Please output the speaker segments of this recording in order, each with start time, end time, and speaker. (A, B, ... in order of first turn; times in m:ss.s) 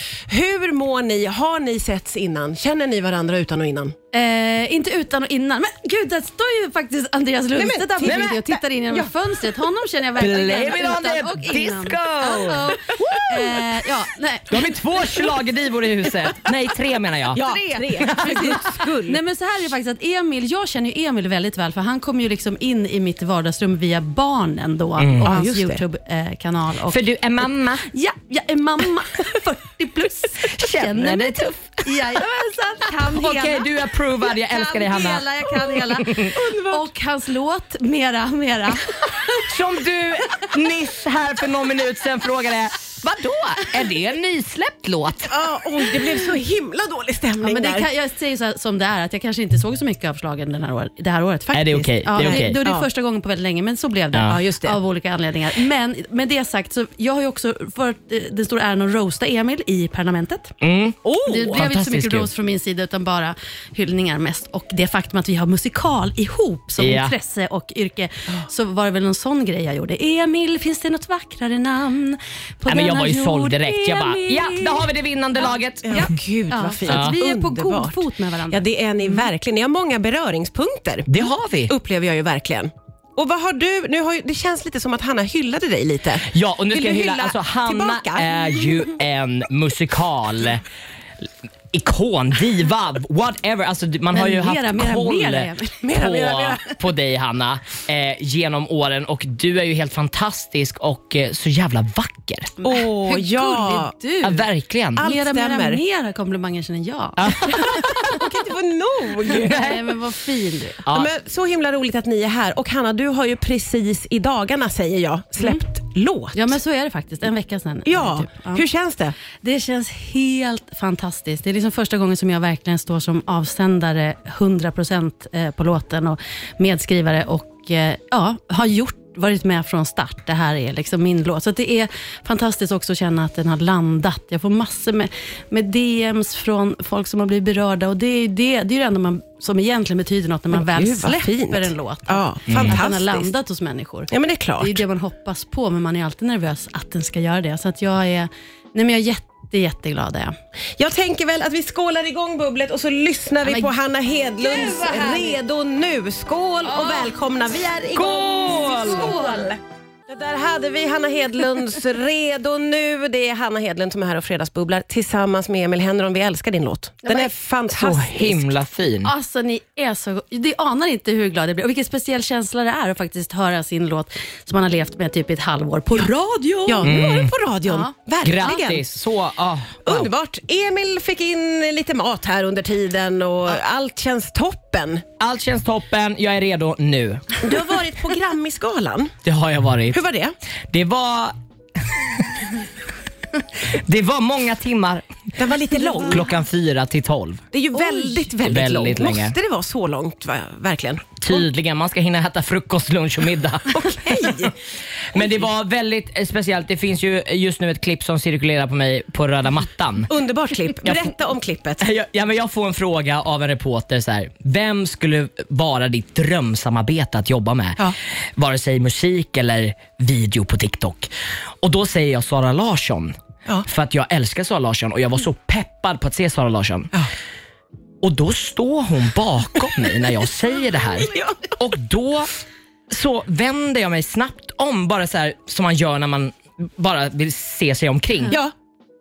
0:00.3-0:04.0 A
0:04.1-0:15.3 B
0:07.6-0:09.1 A
0:08.0-0:08.4 C
0:10.2-0:13.8 C
0:14.5-0:18.6 C
0:17.3-0:19.2 A
0:18.2-0:27.0 B
0:25.0-0:25.3 C
0:25.2-0:25.8 A
0:26.9-0:27.9 C
0:27.8-0:33.8 B
0:30.4-0:31.9 C
0:33.0-0:36.3 C
0:34.3-0:39.4 B
0:36.3-0:36.8 A
0:39.4-0:45.4 C
0:45.3-0:47.9 A
0:47.4-1:00.5 B
0:51.5-0:52.6 C
0:52.2-0:52.9 A
0:54.3-0:54.8 A
1:00.6-1:02.3 C
1:01.0-1:01.6 A
1:01.2-1:14.8 B
1:06.8-1:07.1 C
1:12.7-1:16.1 C
1:15.8-1:21.1 A
1:15.9-1:19.3 B
1:16.8-1:17.1 C
1:21.1-1:21.7 C
1:21.7-1:28.9 A
1:26.2-1:30.6 C
1:31.2-1:42.5 C
1:34.1-1:35.8 B
1:35.8-1:36.7 A
1:42.6-1:44.4 B
1:42.6-1:44.0 A
1:44.2-1:45.0 C
1:45.0-1:45.8 A
1:45.0-1:48.3 B
1:47.2-1:48.1 C
1:47.8-1:49.8 A
1:49.3-1:50.8 B
1:49.3-1:49.8 C
1:50.8-1:51.1 C
1:50.9-1:56.6 A
1:56.3-1:58.6 B
1:57.8-1:59.2 A
1:59.4-2:30.4 B
2:20.5-2:23.3 A
2:22.5-2:22.8 C
2:24.1-2:24.8 A
2:30.8-2:39.6 A
2:33.4-2:33.7 B
2:34.4-2:35.4 B
2:36.6-2:37.1 B
2:37.9-2:39.2 C
2:38.6-2:39.6 B
2:40.1-2:48.5 A
2:47.0-2:47.3 B
2:47.7-2:49.1 C
2:49.0-2:57.0 B
2:56.7-2:58.8 A
2:56.8-2:57.3 C
2:57.7-2:58.6 B
2:58.2-3:00.1 C
2:59.8-3:05.0 A
3:05.2-3:07.4 C
3:07.4-3:09.1 A
3:09.2-3:10.0 C
3:09.9-3:10.3 A
3:10.7-3:12.5 C
3:13.5-3:15.1 C
3:15.4-3:16.2 A
3:15.7-3:17.4 C
3:17.5-3:21.3 A
3:18.4-3:19.4 C
3:21.2-3:24.5 C
3:23.7-3:24.6 A
3:25.1-3:30.1 C
3:25.1-3:25.4 A
3:30.1-3:31.8 A
3:30.8-3:31.1 C
3:31.8-3:46.9 C
3:48.0-3:52.3 C
3:51.0-3:51.6 A
3:52.9-3:58.4 C